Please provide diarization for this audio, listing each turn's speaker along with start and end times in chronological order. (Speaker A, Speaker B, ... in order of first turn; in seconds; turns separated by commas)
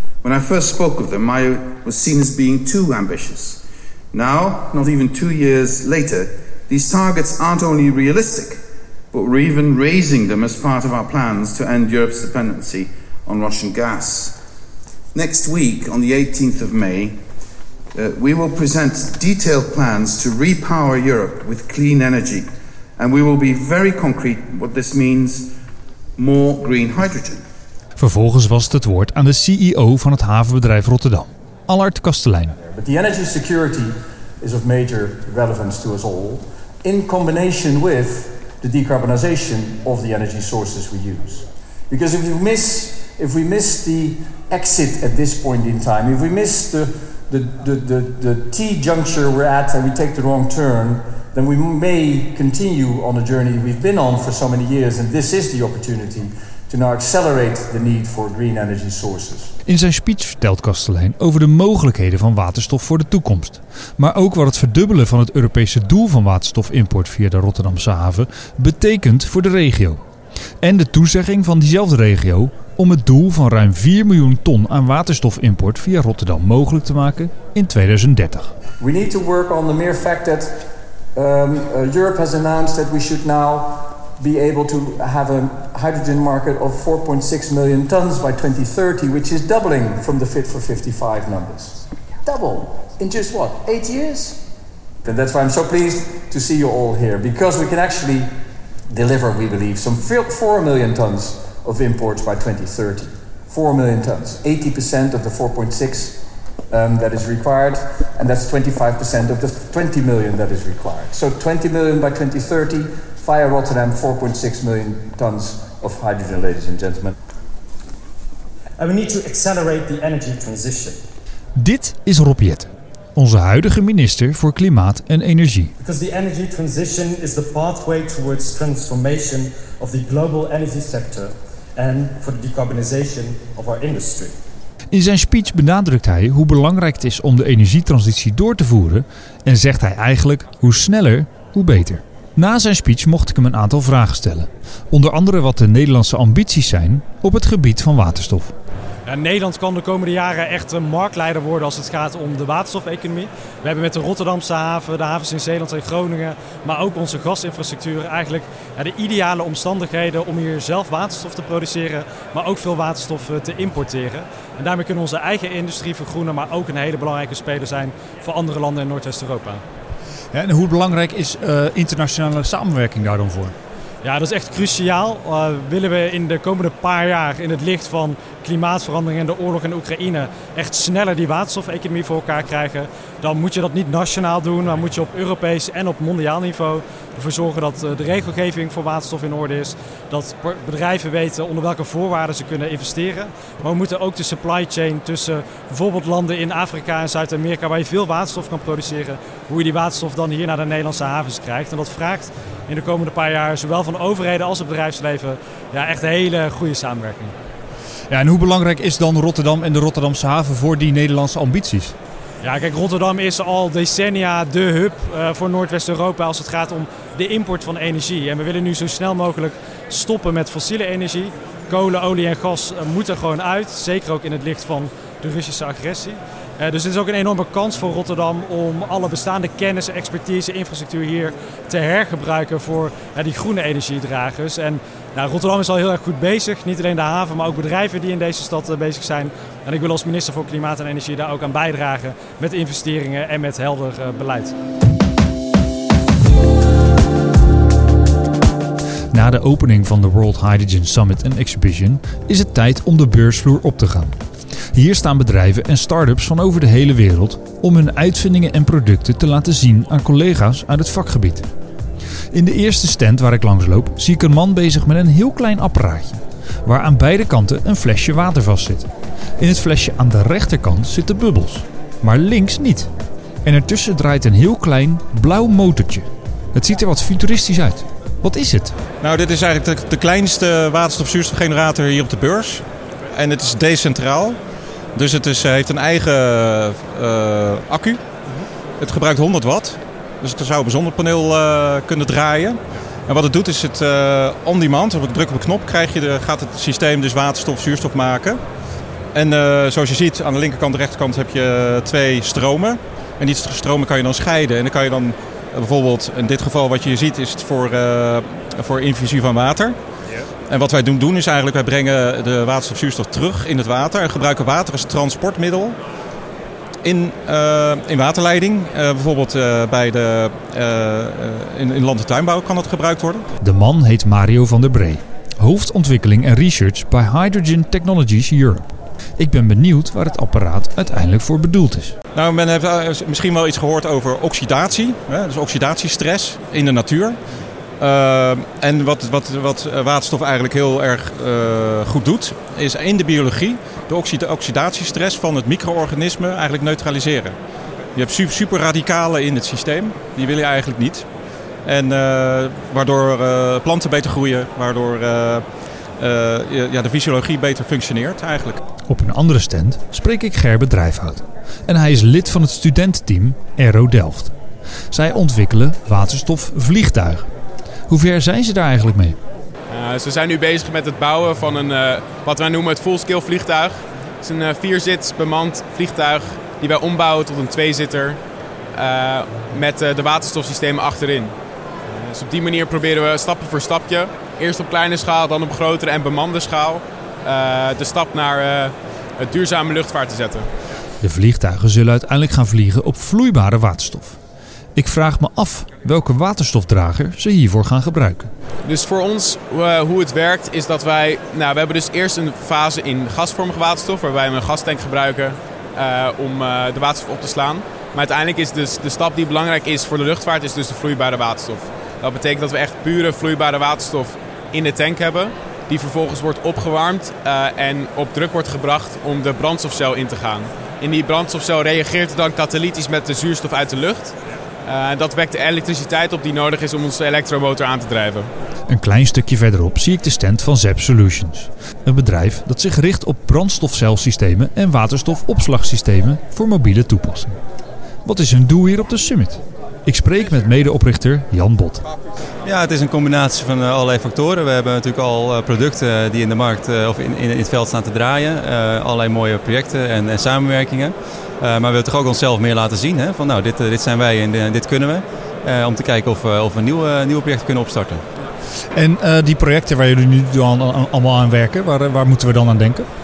Speaker A: 0.2-14.4, Speaker A: 15.1-17.2, Speaker A: 17.9-25.5, Speaker A: 26.2-27.4, Speaker B: 28.0-32.6, Speaker C: 32.6-59.5, Speaker B: 59.7-70.0, Speaker B: 70.6-78.5, Speaker C: 78.8-94.5, Speaker C: 95.0-98.3, Speaker C: 98.9-117.2, Speaker D: 118.8-121.0, Speaker B: 121.6-125.7, Speaker D: 125.8-134.4, Speaker B: 134.9-148.5, Speaker E: 149.1-169.6, Speaker B: 170.3-173.6, Speaker E: 174.0-207.3, Speaker B: 208.1-212.0, Speaker E: 212.4-244.5, Speaker B: 249.1-254.2, Speaker B: 254.7-261.5, Speaker B: 262.3-272.9, Speaker B: 273.4-278.8, Speaker F: 279.0-284.4, Speaker F: 285.0-288.0, Speaker F: 288.8-298.4, Speaker F: 299.1-309.8, Speaker F: 310.5-315.8, Speaker F: 316.8-323.2, Speaker B: 323.4-332.0, Speaker F: 332.1-337.2, Speaker F: 337.8-347.4, Speaker F: 347.9-351.1, Speaker F: 351.6-358.6, Speaker B: 358.9-364.4, Speaker B: 364.9-367.3, Speaker B: 367.9-369.2, Speaker G: 369.7-378.2, Speaker G: 378.7-381.3, Speaker G: 381.9-390.5, Speaker B: 391.0-394.2, Speaker B: 394.8-398.3, Speaker G: 398.6-428.3, Speaker B: 428.7-437.4, Speaker B: 438.0-441.9, Speaker H: 442.4-458.0, Speaker B: 458.7-462.9